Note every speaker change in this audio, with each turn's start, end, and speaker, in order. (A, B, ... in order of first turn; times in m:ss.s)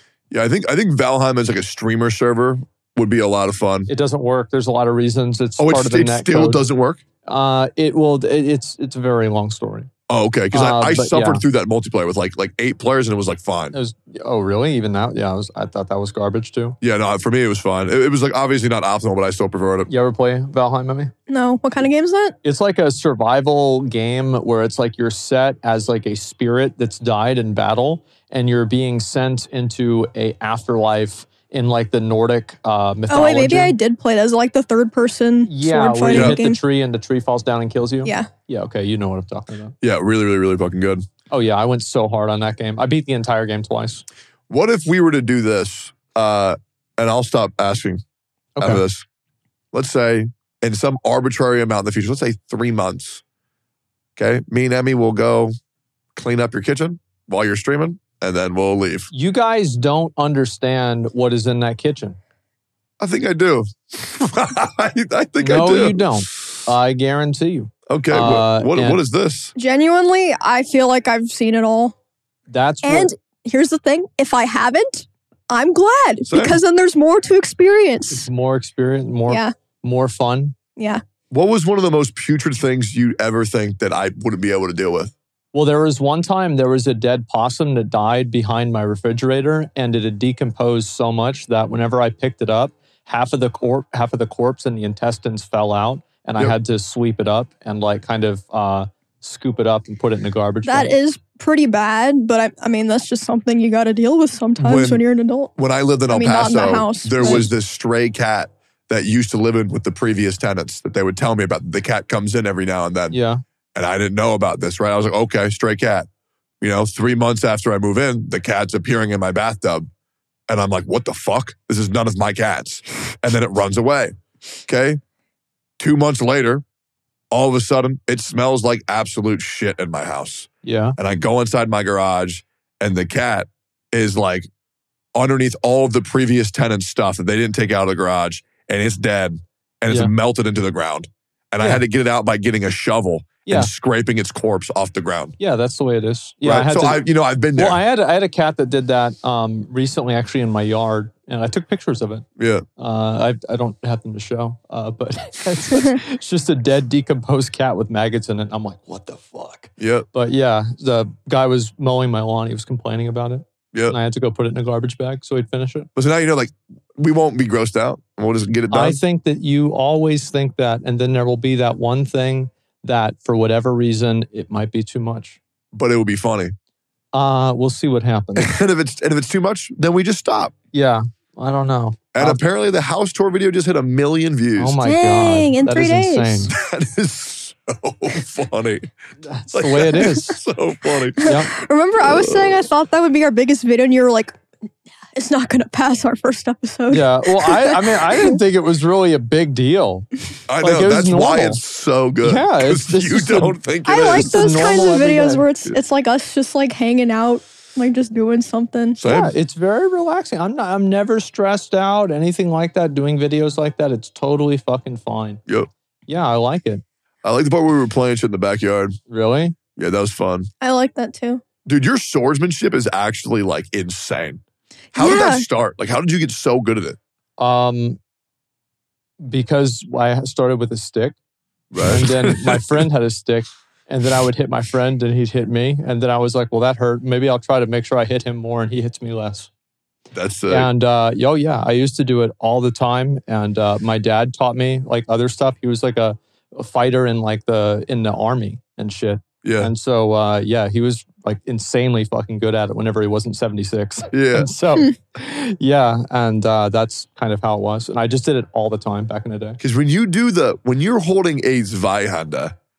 0:00.3-0:03.9 A
0:03.9-0:06.6 B
0:05.6-0:07.0 A
0:07.2-0:09.9 B
0:10.1-0:13.8 A
0:10.5-0:11.4 B
0:13.7-0:16.8 B
0:16.8-0:19.9 A
0:19.9-0:21.1 B
0:21.3-0:22.4 C
0:22.4-0:33.8 B
0:33.1-0:36.6 C
0:35.5-0:39.8 B
0:36.1-0:36.4 A
0:39.8-0:41.0 A
0:41.3-0:44.0 B
0:44.5-0:48.0 A
0:48.6-0:48.8 B
0:48.6-0:49.0 A
0:49.7-0:53.2 A
0:54.2-0:55.5 A
0:56.2-0:59.1 A
0:59.1-1:02.2 B
1:03.0-1:06.2 A
1:05.4-1:09.0 B
1:07.9-1:09.5 A
1:09.6-1:11.9 C
1:12.5-1:13.1 B
1:12.8-1:18.2 C
1:16.3-1:16.6 A
1:18.1-1:20.6 B
1:20.8-1:21.0 C
1:21.3-1:25.1 A
1:25.5-1:40.9 B
1:40.7-1:45.5 C
1:44.6-1:45.0 A
1:45.6-1:53.2 A
1:46.1-1:47.5 C
1:47.2-1:47.5 B
1:53.1-1:53.4 B
1:53.8-1:56.1 A
1:56.6-1:59.9 A
2:00.5-2:04.1 A
2:04.7-2:05.0 A
2:05.8-2:06.6 A
2:07.3-2:14.5 A
2:10.6-2:11.0 B
2:15.2-2:25.4 A
2:25.4-2:32.3 B
2:26.4-2:27.8 A
2:32.4-2:32.6 A
2:32.8-2:45.9 B
2:39.8-2:40.1 A
2:46.0-2:49.0 A
2:48.7-2:55.4 B
2:55.7-2:56.5 A
2:57.1-2:58.5 B
2:58.4-3:00.6 A
3:00.7-3:02.4 B
3:02.1-3:04.8 A
3:04.6-3:06.5 B
3:04.8-3:06.5 C
3:06.5-3:08.9 A
3:09.2-3:10.4 B
3:09.5-3:11.4 A
3:11.2-3:14.3 C
3:11.2-3:11.5 B
3:12.0-3:12.7 A
3:15.2-3:18.4 C
3:16.9-3:20.1 B
3:20.5-3:24.6 A
3:20.6-3:21.6 B
3:22.2-3:25.5 B
3:23.9-3:29.0 C
3:29.0-3:29.3 A
3:29.0-3:35.4 B
3:36.1-3:36.8 B
3:37.2-3:39.0 A
3:39.1-3:39.6 B
3:39.8-3:40.5 A
3:40.6-3:41.4 C
3:41.7-3:44.4 A
3:44.9-3:45.5 C
3:44.9-3:47.0 A
3:47.4-3:48.0 B
3:49.2-3:51.2 B
3:51.7-3:52.8 A
3:51.8-3:59.5 B
4:00.1-4:00.7 A
4:00.5-4:19.6 B
4:09.4-4:09.7 A
4:14.1-4:14.5 A
4:19.6-4:22.6 A